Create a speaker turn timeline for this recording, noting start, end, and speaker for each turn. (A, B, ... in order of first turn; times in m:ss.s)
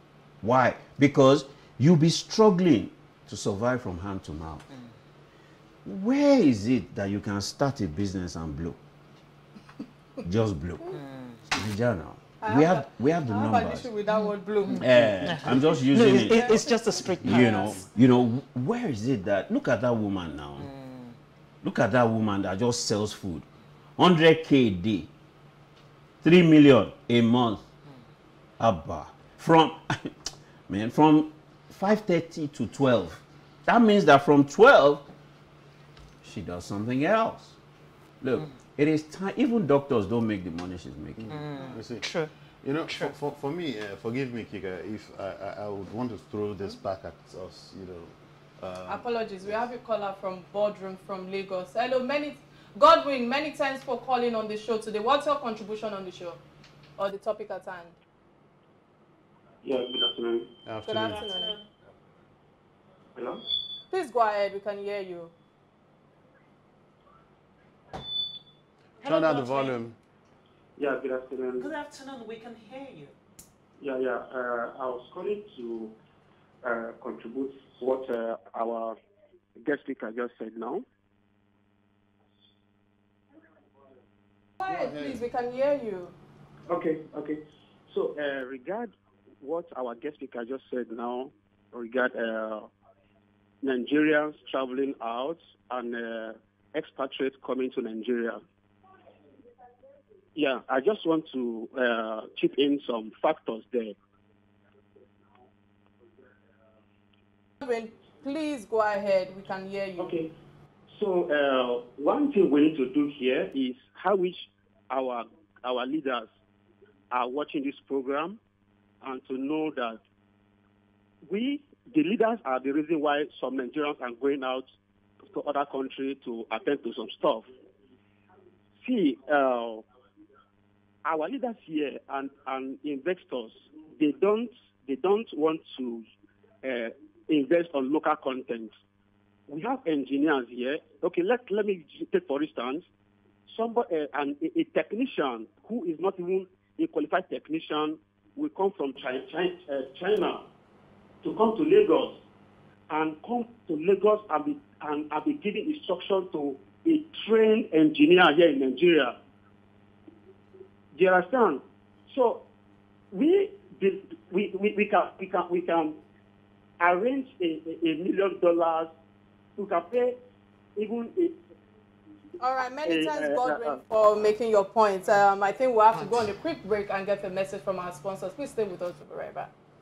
0:00.4-0:04.7 A
0:05.8-0:08.8 A
0:10.2-0:11.0 A
0:11.0-0:11.3 B
0:11.5-0:13.9 A
0:12.4-0:14.8 C
0:14.1-0:17.8 B
0:14.7-0:16.7 A
0:16.1-0:16.6 C
0:17.2-0:20.7 A
0:20.6-0:21.1 B
0:21.6-0:23.4 A
0:24.0-0:25.1 A
0:26.2-0:27.6 A
0:28.6-0:35.1 A
0:36.2-0:37.6 A
0:38.2-0:41.4 A
0:41.2-0:42.1 D
0:41.3-0:42.3 B
0:42.6-0:49.6 D
0:42.9-0:43.1 B
0:48.9-0:56.4 C
0:57.0-0:57.9 C
0:59.6-1:00.5 E
1:00.6-1:01.2 D
1:00.9-1:01.6 C
1:01.1-1:01.6 B
1:03.2-1:03.4 E
1:03.9-1:05.3 C
1:09.0-1:10.0 D
1:09.1-1:09.7 B
1:10.8-1:11.7 E
1:11.6-1:13.2 B
1:13.8-1:15.9 E
1:16.6-1:19.0 E
1:19.6-1:20.8 E
1:24.6-1:26.1 C
1:24.6-1:25.2 D
1:26.7-1:32.7 E
1:33.6-1:38.4 E
1:40.4-1:44.0 E
1:47.6-1:50.2 C
1:50.0-1:50.3 E
1:50.9-1:56.3 E
1:57.1-1:58.4 E
1:59.0-2:00.0 E
2:01.3-2:04.7 E
2:05.3-2:07.5 E
2:08.8-2:09.8 E
2:11.0-2:16.1 E
2:16.6-2:18.7 E
2:19.5-2:22.8 E
2:23.5-2:30.4 E
2:31.2-2:32.2 E
2:32.9-2:39.2 E
2:40.9-2:42.4 E
2:43.1-2:46.0 E
2:46.8-2:48.9 E
2:49.6-2:50.2 E
2:50.8-2:51.4 E
2:52.4-2:59.5 C
2:52.8-2:53.8 E
2:56.0-2:56.2 B